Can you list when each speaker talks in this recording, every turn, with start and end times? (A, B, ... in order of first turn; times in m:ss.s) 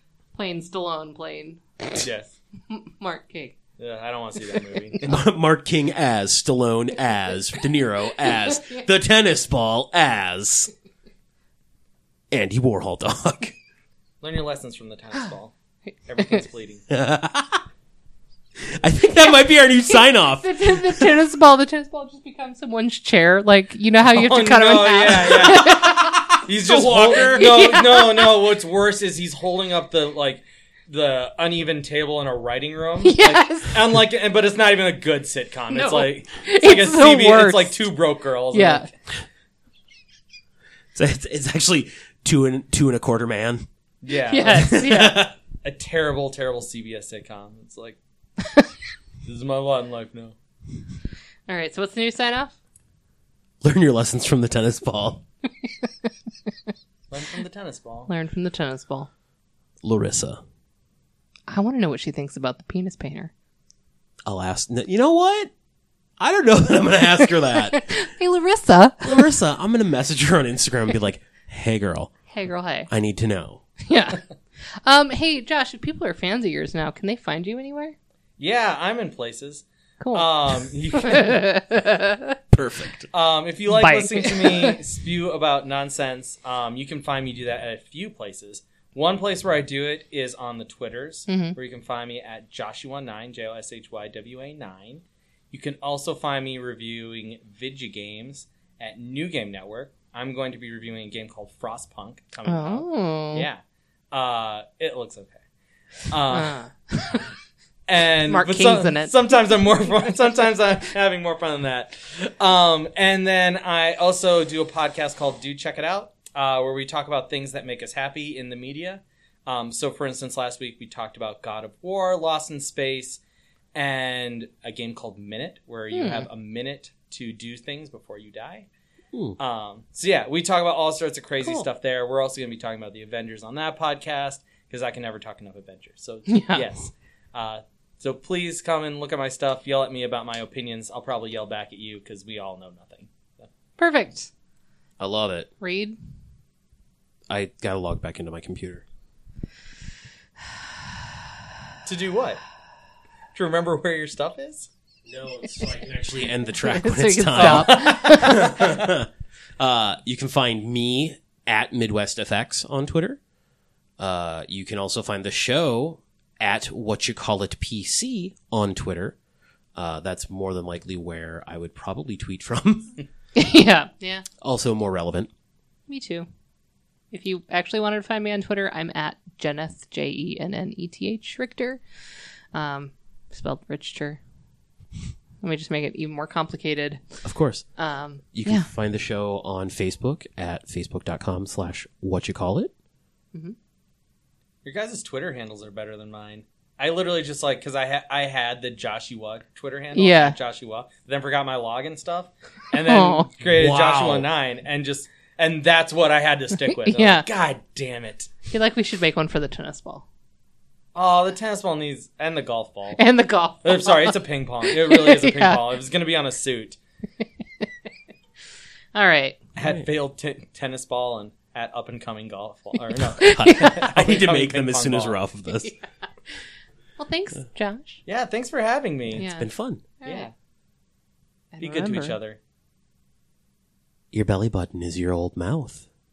0:00.3-0:01.6 A
0:02.0-0:02.3 B
0:02.7-0:03.6 A
0:03.8-0:05.2 B
0:04.5-0:04.9 A
0:05.0-0:10.7 C
0:08.2-0:08.8 A
0:12.3-0:13.6 C
0:14.2-0:15.5 B
0:16.1-0:16.8 B
0:16.9-0:17.6 C
0:18.6-0:21.2 C
0:19.9-0:26.2 A
0:24.1-0:38.9 B
0:25.5-0:27.6 C
0:27.2-0:28.5 A
0:33.0-0:33.8 A
0:35.7-0:37.8 A
0:38.5-0:38.9 A
0:40.9-0:43.6 C
0:44.0-0:44.8 B
0:44.3-0:45.2 A
0:44.4-0:45.3 C
0:45.6-0:48.0 B
0:48.4-0:48.7 A
0:49.2-0:50.3 B
0:51.5-0:52.5 A
0:53.6-0:55.2 C
0:55.6-0:56.1 A
0:57.1-0:58.1 B
0:58.1-0:59.1 A
0:59.8-1:00.4 C
1:01.5-1:03.3 A
1:04.2-1:05.5 C
1:06.2-1:08.0 C
1:07.0-1:09.3 A
1:09.0-1:12.1 C
1:12.3-1:12.9 A
1:12.9-1:13.6 C
1:13.8-1:14.2 A
1:14.8-1:17.9 A
1:18.4-1:21.4 B
1:20.0-1:20.3 A
1:20.9-1:22.4 A
1:22.5-1:23.1 C
1:23.1-1:45.4 B
1:23.7-1:24.8 A
1:31.3-1:31.6 A
1:42.4-1:43.5 A
1:46.1-1:46.6 B
1:46.3-1:47.3 A
1:47.9-2:03.2 B
1:48.2-1:49.1 A
2:03.7-2:08.7 B
2:05.9-2:06.3 A
2:09.1-2:09.4 C
2:09.4-2:23.5 B
2:11.4-2:11.7 A
2:16.3-2:16.7 A
2:23.8-2:24.3 A
2:25.0-2:25.5 C
2:25.6-2:26.0 A
2:27.3-2:28.8 C
2:31.8-2:32.4 B
2:33.3-2:34.7 B
2:35.1-2:43.2 C
2:36.6-2:38.7 A
2:37.4-2:38.5 B
2:44.0-2:49.2 C
2:49.8-2:52.9 C
2:53.4-2:54.2 A
2:54.4-2:55.3 C
2:55.9-2:56.3 A
2:57.1-3:01.8 A
3:02.5-3:04.2 A
3:05.4-3:07.0 A
3:07.2-3:07.6 C
3:07.8-3:08.7 A
3:08.3-3:12.7 C
3:14.6-3:28.3 B
3:19.9-3:20.4 A
3:22.8-3:23.3 A
3:23.5-3:24.3 C
3:26.7-3:27.2 A
3:28.5-3:30.0 A
3:30.9-3:33.0 B
3:33.0-3:35.6 A
3:33.6-3:36.8 B
3:38.9-3:39.4 A
3:39.6-3:45.2 B
3:43.2-3:45.8 C
3:43.2-3:43.7 A
3:47.0-3:48.0 A
3:48.0-3:49.3 B
3:49.1-3:49.5 A
3:49.2-3:49.8 C
3:50.0-3:50.3 A
3:50.0-3:50.3 B
3:51.5-3:52.2 A
3:51.6-3:52.4 B
3:54.1-3:55.8 C